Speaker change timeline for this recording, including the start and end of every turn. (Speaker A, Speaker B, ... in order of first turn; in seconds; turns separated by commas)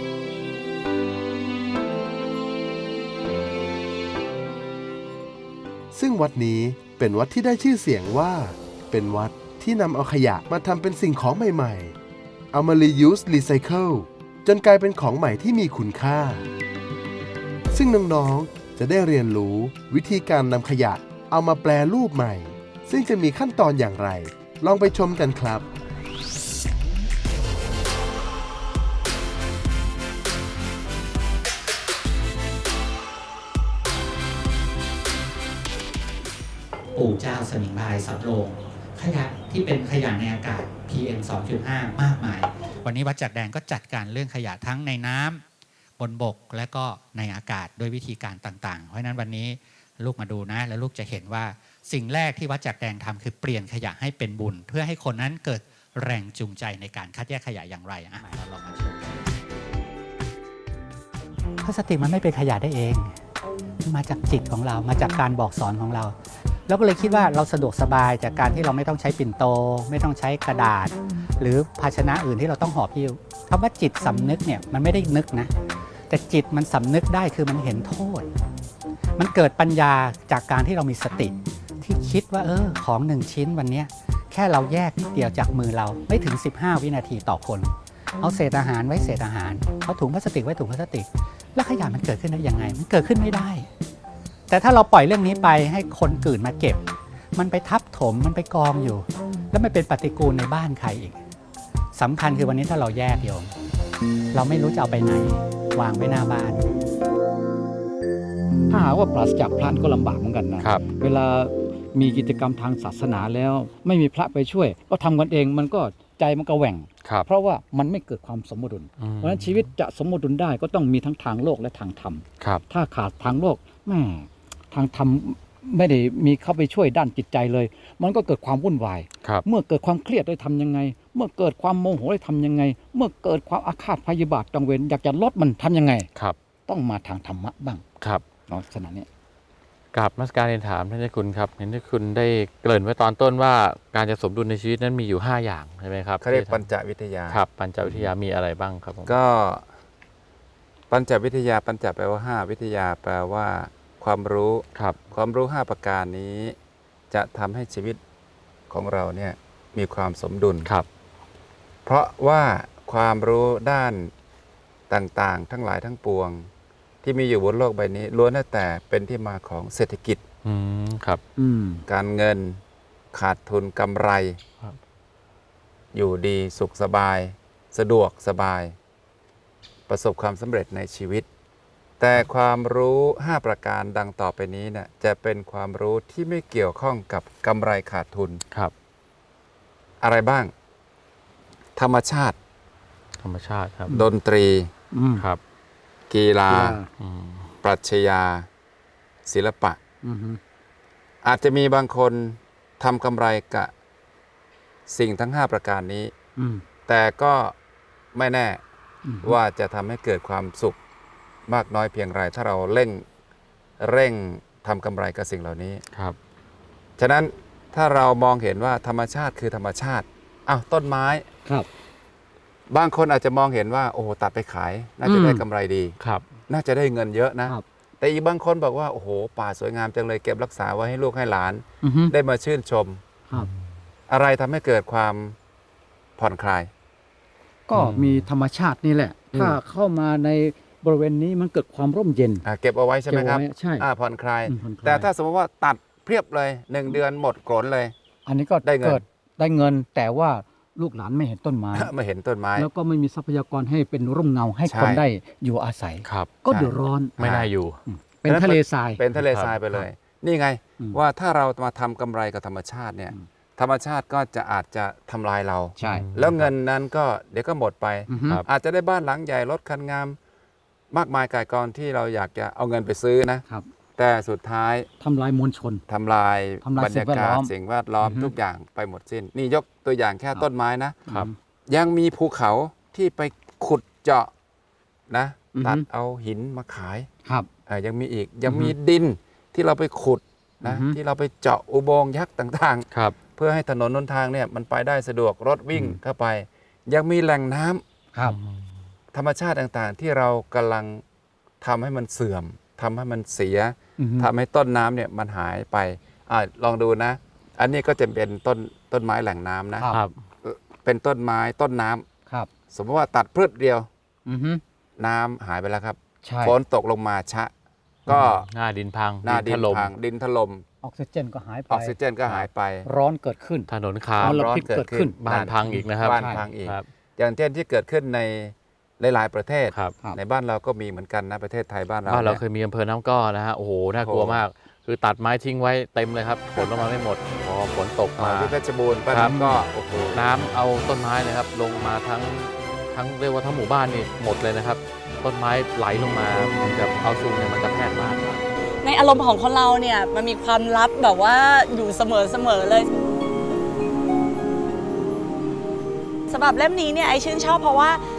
Speaker A: 5.9-12.0, Speaker A: 12.5-16.5, Speaker A: 17.7-25.7, Speaker B: 37.0-45.4, Speaker B: 46.0-59.3, Speaker B: 61.6-63.2, Speaker B: 63.9-66.2, Speaker B: 66.7-75.5, Speaker B: 76.1-78.3, Speaker B: 79.2-93.7, Speaker B: 94.5-96.8, Speaker B: 97.3-101.2, Speaker B: 102.0-103.5, Speaker B: 104.3-106.7, Speaker C: 108.7-136.1, Speaker D: 110.6-110.9, Speaker D: 117.0-117.3, Speaker D: 119.0-119.7, Speaker C: 136.7-137.8, Speaker C: 138.5-139.1, Speaker D: 139.9-146.6, Speaker E: 146.2-148.1, Speaker D: 147.3-149.1, Speaker E: 149.1-149.7, Speaker E: 150.9-156.6, Speaker E: 157.1-158.0, Speaker E: 158.7-160.7, Speaker E: 161.9-164.1, Speaker E: 164.9-166.5, Speaker E: 167.0-170.2, Speaker D: 170.4-171.2, Speaker C: 171.4-171.8, Speaker E: 171.9-172.6, Speaker E: 173.1-174.4, Speaker E: 175.9-178.8, Speaker E: 179.9-181.3, Speaker E: 182.0-188.4, Speaker E: 190.0-190.5, Speaker E: 191.8-192.4, Speaker D: 193.2-194.0, Speaker E: 193.9-194.7, Speaker C: 194.9-195.2, Speaker E: 196.1-196.8, Speaker C: 196.5-196.9, Speaker D: 197.0-197.5, Speaker E: 197.6-198.5, Speaker E: 199.3-199.8, Speaker C: 200.0-200.4, Speaker E: 201.2-203.7, Speaker E: 204.9-206.1, Speaker C: 206.4-206.6, Speaker E: 206.9-207.6, Speaker E: 208.1-208.6, Speaker C: 209.1-209.4, Speaker E: 209.2-210.8, Speaker E: 211.5-213.1, Speaker E: 213.8-215.8, Speaker E: 217.0-221.3, Speaker E: 222.7-225.9, Speaker C: 225.0-225.4, Speaker E: 226.5-233.0, Speaker C: 231.8-232.1, Speaker E: 234.1-235.4, Speaker E: 236.2-236.7, Speaker C: 237.7-242.4, Speaker D: 237.8-238.3, Speaker E: 242.4-247.9, Speaker C: 243.1-243.9, Speaker C: 244.5-245.1, Speaker C: 248.3-251.9, Speaker E: 248.6-249.0, Speaker E: 251.8-252.7, Speaker C: 252.6-257.2, Speaker E: 254.7-255.0, Speaker D: 256.1-256.4, Speaker E: 256.5-257.5, Speaker D: 257.2-257.8, Speaker C: 257.9-259.0, Speaker E: 258.2-270.2, Speaker C: 265.8-266.1, Speaker D: 265.9-266.5, Speaker C: 268.1-268.4, Speaker E: 270.9-273.4, Speaker E: 274.0-274.9, Speaker C: 275.0-275.8, Speaker E: 275.9-281.0, Speaker C: 276.6-277.5, Speaker C: 278.0-278.3, Speaker C: 281.1-281.4, Speaker E: 281.7-284.3, Speaker E: 285.1-287.1, Speaker C: 285.5-285.9, Speaker E: 287.7-297.8, Speaker C: 290.6-291.0, Speaker D: 298.2-298.7, Speaker E: 299.1-301.0, Speaker E: 301.6-309.9, Speaker C: 304.0-304.3, Speaker D: 309.9-310.2, Speaker E: 310.4-312.1, Speaker E: 312.7-313.9, Speaker C: 314.3-314.6, Speaker E: 315.0-317.5, Speaker C: 316.2-316.6, Speaker E: 318.1-318.5, Speaker D: 318.1-319.9, Speaker E: 319.2-320.6, Speaker C: 320.8-325.2, Speaker E: 321.7-322.9, Speaker D: 323.7-324.5, Speaker E: 324.2-332.4, Speaker D: 325.1-326.9, Speaker C: 325.7-326.5, Speaker D: 332.1-338.5, Speaker E: 334.0-334.4, Speaker E: 336.6-336.9, Speaker E: 338.2-340.4, Speaker D: 339.1-339.4, Speaker C: 339.2-339.5, Speaker D: 340.1-348.4, Speaker F: 348.8-352.9, Speaker F: 356.3-358.0